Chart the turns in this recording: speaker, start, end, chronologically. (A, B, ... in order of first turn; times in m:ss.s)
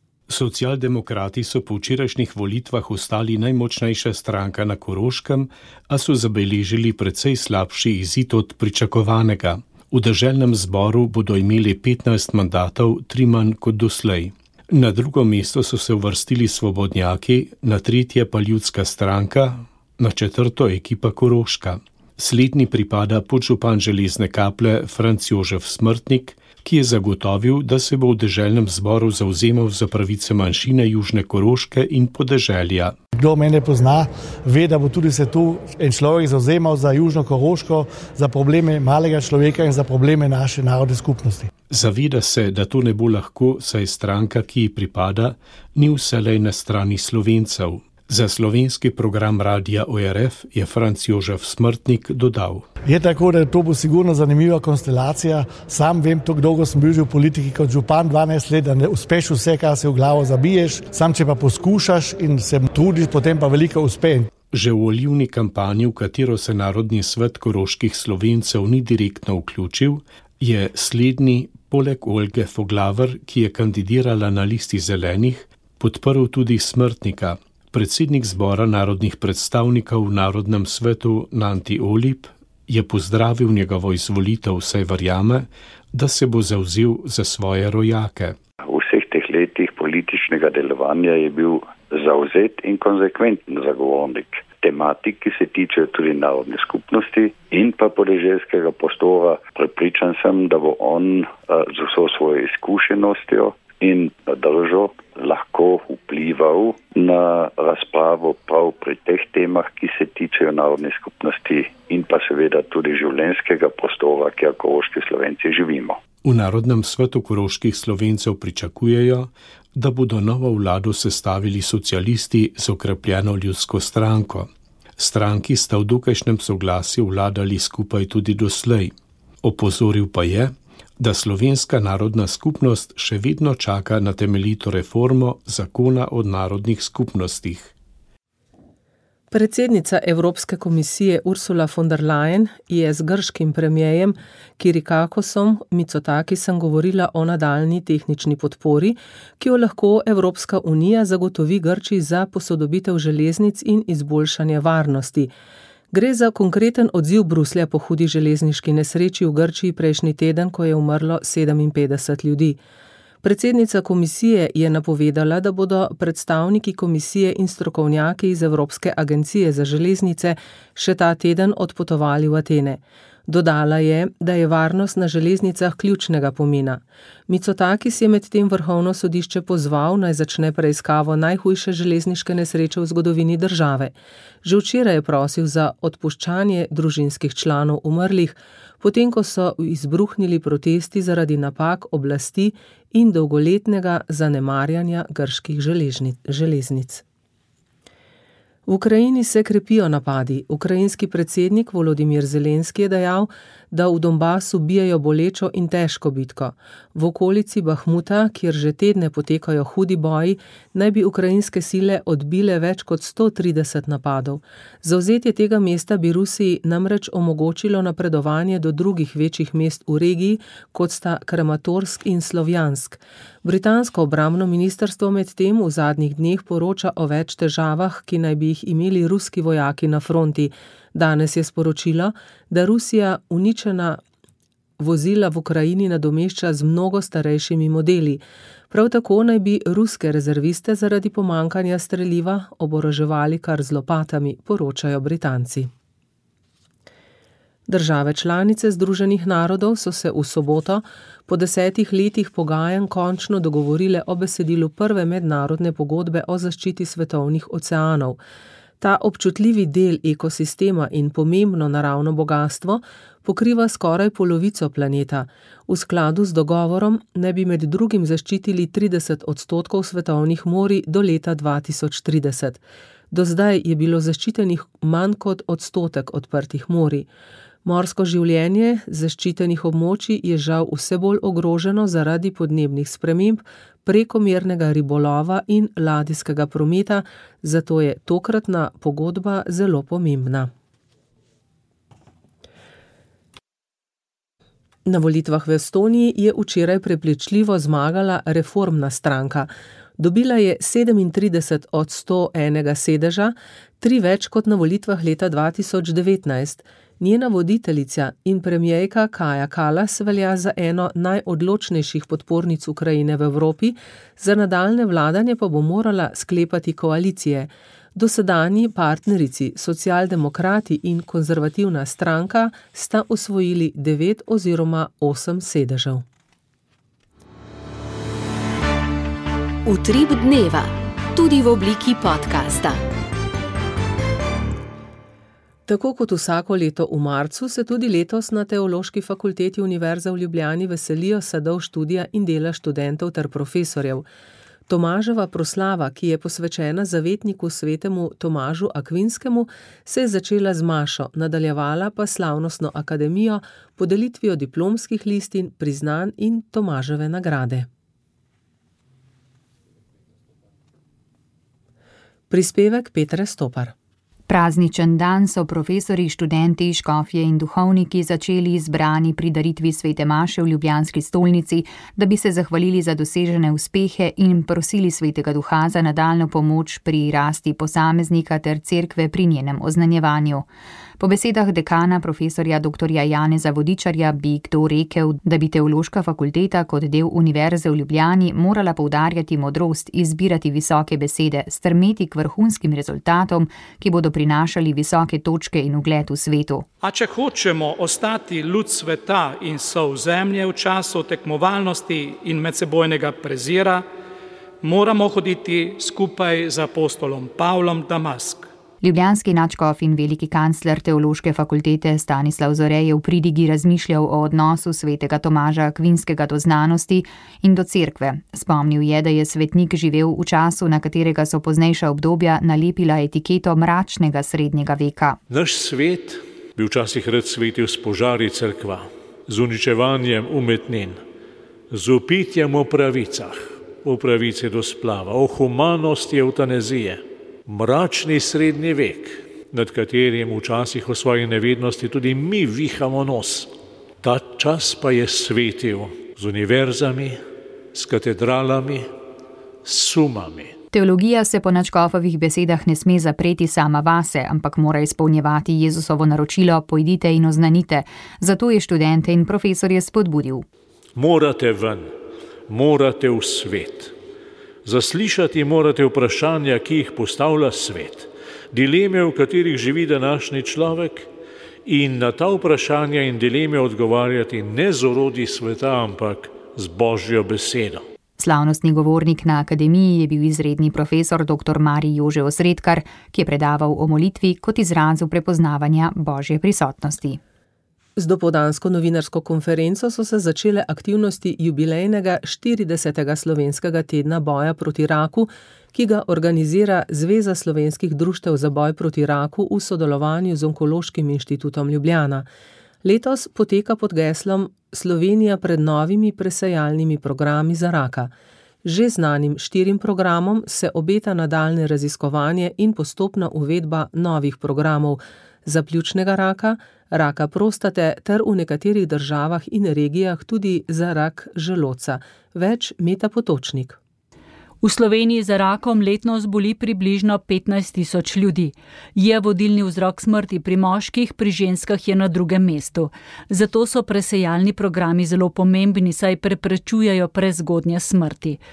0:00.3-0:33.0 A
0:33.2-0:41.5 B
0:41.7-0:52.6 A
0:52.8-1:04.3 B
1:04.5-1:28.4 A
1:28.6-1:56.0 C
1:56.2-2:17.7 A
2:19.3-2:35.3 D
2:35.9-2:42.6 D
2:43.2-3:03.9 D
3:04.4-3:17.0 D
3:18.7-3:54.0 D
3:54.8-4:05.7 D
4:07.7-4:18.2 D
4:18.8-4:37.1 D
4:37.6-4:50.5 D
4:54.9-5:26.0 D
5:29.7-5:32.8 E
5:35.7-5:44.0 D
5:44.7-5:57.7 D
6:02.3-6:03.7 D
6:04.3-6:20.5 F
6:21.0-6:36.7 F
6:36.8-6:43.8 G
6:44.6-6:48.5 G
6:48.8-7:05.2 F
7:05.3-7:11.0 H
7:11.7-7:28.9 H
7:29.6-7:30.5 H
7:30.7-7:40.5 F
7:41.0-7:42.0 H
7:42.5-7:44.0 H
7:44.6-7:51.1 H
7:51.7-7:57.9 H
7:58.2-8:07.2 F
8:08.0-8:22.2 D
8:22.8-8:28.1 D
8:28.6-8:43.8 D
8:44.6-8:58.4 I